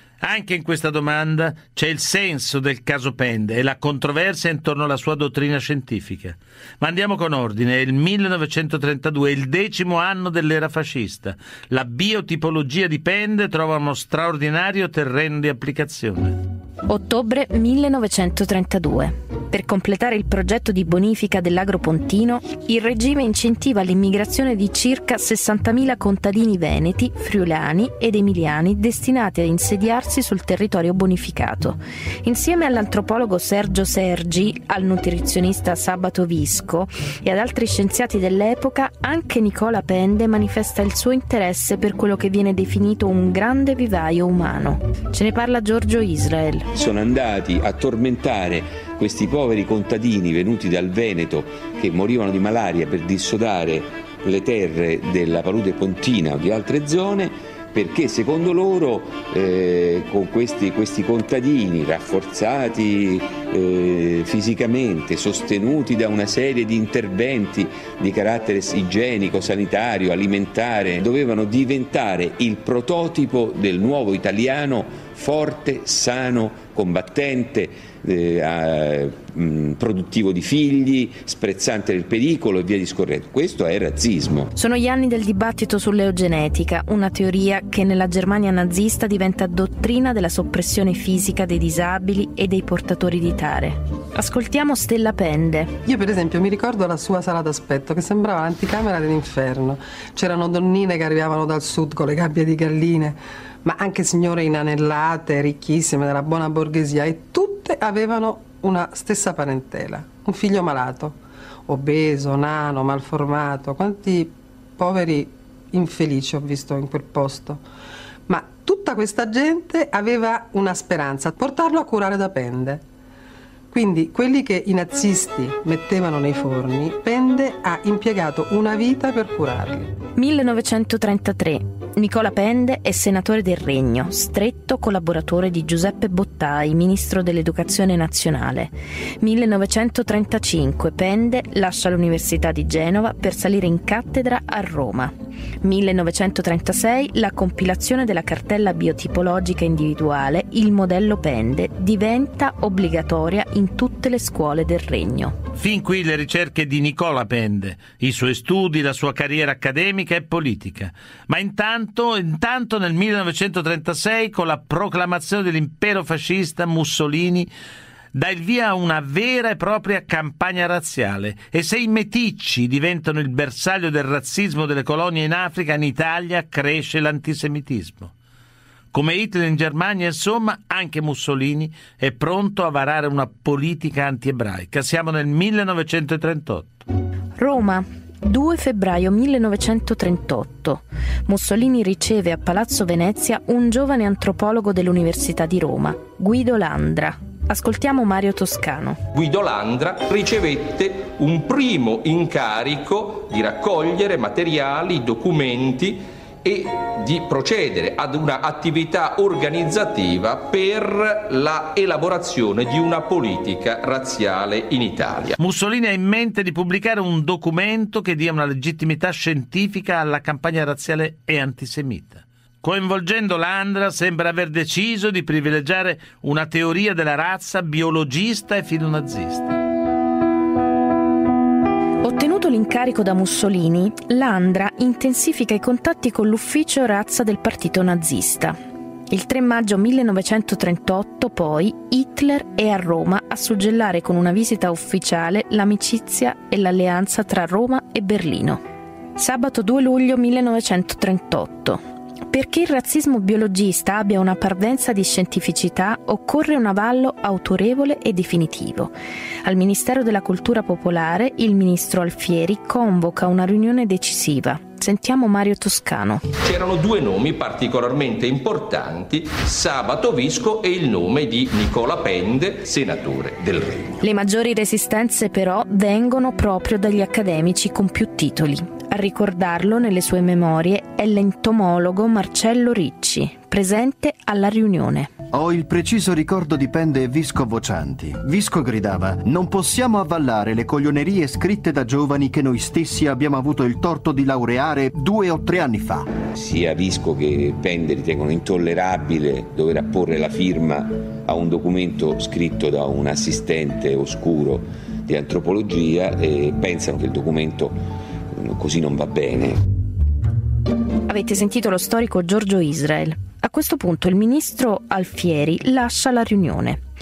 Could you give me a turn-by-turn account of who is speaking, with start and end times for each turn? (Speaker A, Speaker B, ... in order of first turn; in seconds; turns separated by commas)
Speaker A: 0.2-16.4, Speaker B: 16.9-46.7, Speaker C: 46.7-84.5, Speaker B: 84.5-95.8, Speaker D: 95.8-117.6, Speaker D: 118.3-122.8, Speaker D: 123.7-129.9, Speaker B: 130.2-155.4, Speaker A: 155.6-167.5, Speaker A: 168.1-178.1, Speaker A: 178.9-186.8, Speaker B: 187.4-199.0, Speaker E: 199.1-215.3, Speaker A: 215.4-229.6, Speaker B: 232.0-238.6, Speaker B: 239.1-248.6, Speaker B: 249.2-258.9, Speaker B: 259.4-266.2, Speaker E: 266.4-274.0, Speaker B: 274.0-285.1, Speaker F: 285.3-296.1, Speaker C: 296.3-307.8, Speaker C: 308.3-309.6, Speaker B: 311.1-316.8